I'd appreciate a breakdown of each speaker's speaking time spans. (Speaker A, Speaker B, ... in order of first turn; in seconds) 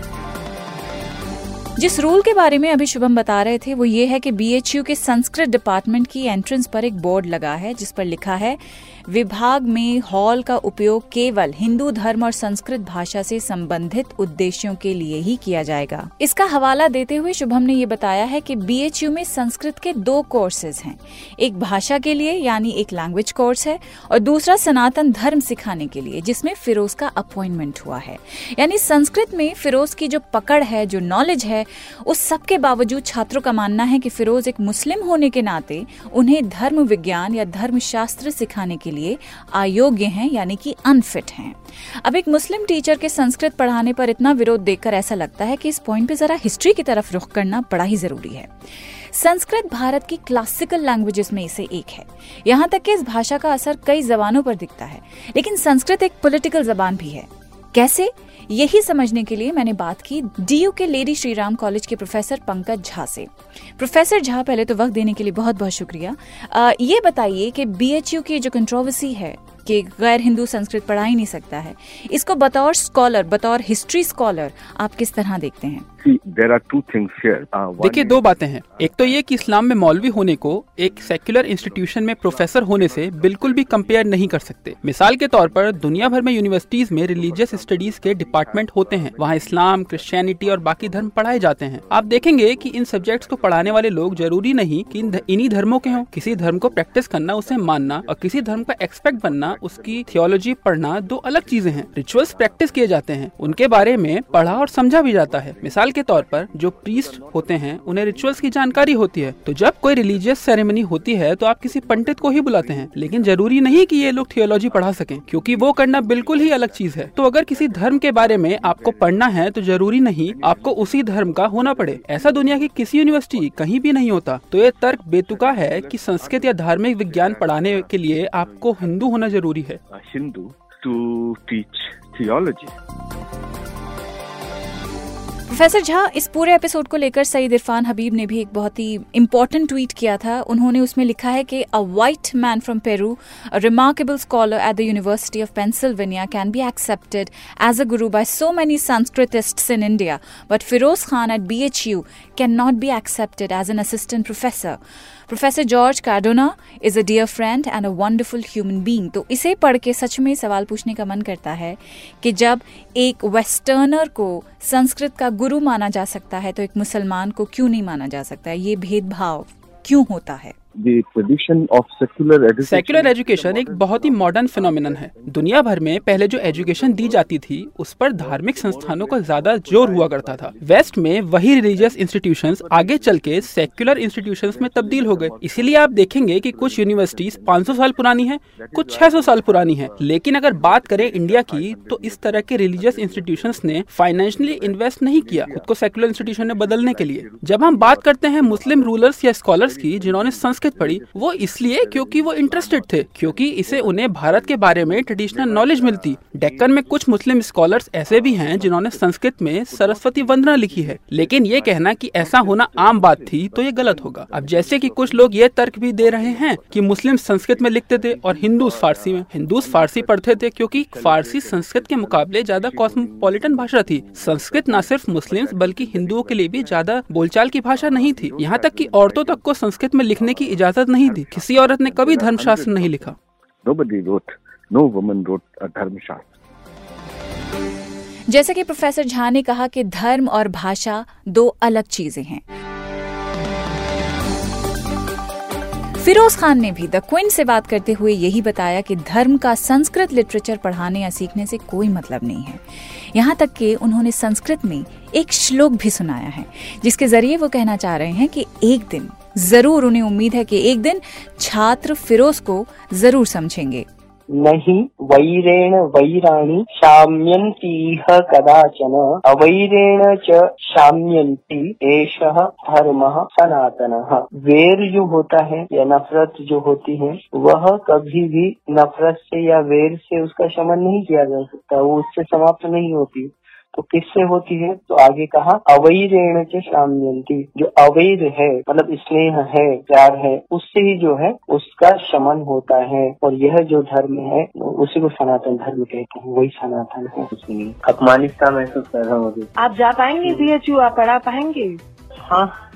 Speaker A: 1.8-75.8, 135.5-170.6, 238.3-242.4, 246.0-263.9
Speaker B: 76.0-84.8, 85.3-86.3, 86.8-123.8, 124.6-129.3, 129.9-132.8, 170.8-226.9, 227.6-233.1, 233.6-236.3
Speaker C: 77.8-129.8, 172.6-233.2
Speaker D: 264.4-299.5, 300.2-300.5
Speaker E: 299.6-301.8